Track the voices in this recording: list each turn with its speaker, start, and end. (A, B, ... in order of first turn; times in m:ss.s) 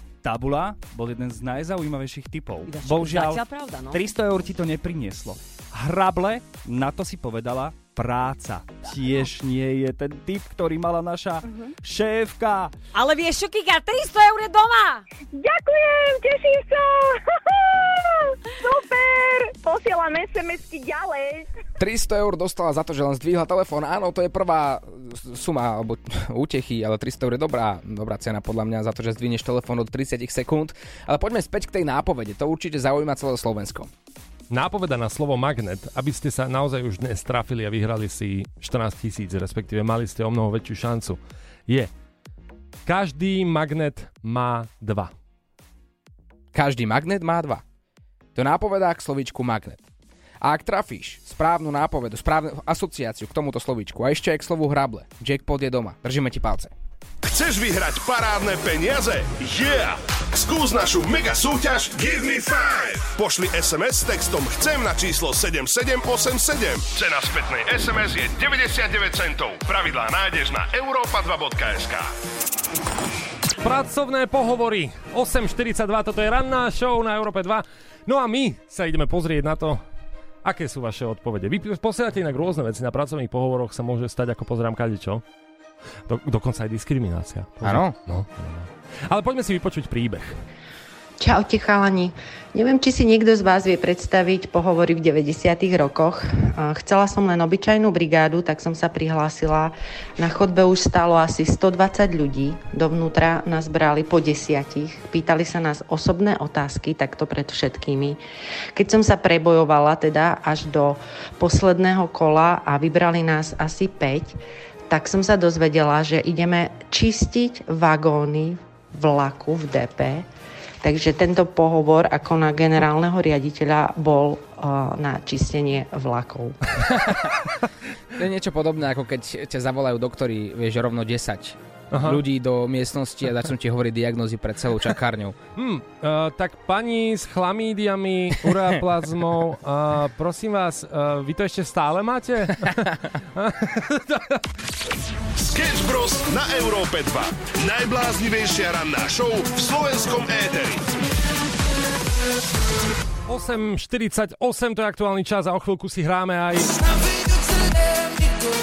0:00.2-0:12.8 A
0:02.7-0:04.0 B
0:12.9-0:15.0 B
0:15.3-0:21.5 C
0:21.8-0:33.9 D
0:34.5-0:41.9 E
0:42.8-0:45.1 E
0:46.5-0:47.6 D
0:48.3-0:49.8 D
0:50.4-0:56.7 D
0:57.2-1:12.1 F
1:13.6-1:19.8 E
1:20.4-1:25.2 E
1:26.1-1:30.4 E
1:27.6-1:27.9 D
1:31.2-1:48.2 G
1:48.7-1:54.4 G
1:54.9-2:00.3 G
2:00.8-2:06.6 G
2:06.9-2:07.3 D
2:08.2-2:15.4 D
2:11.9-2:12.2 E
2:15.6-2:24.4 E
2:25.4-2:30.8 F
2:33.3-2:36.7 E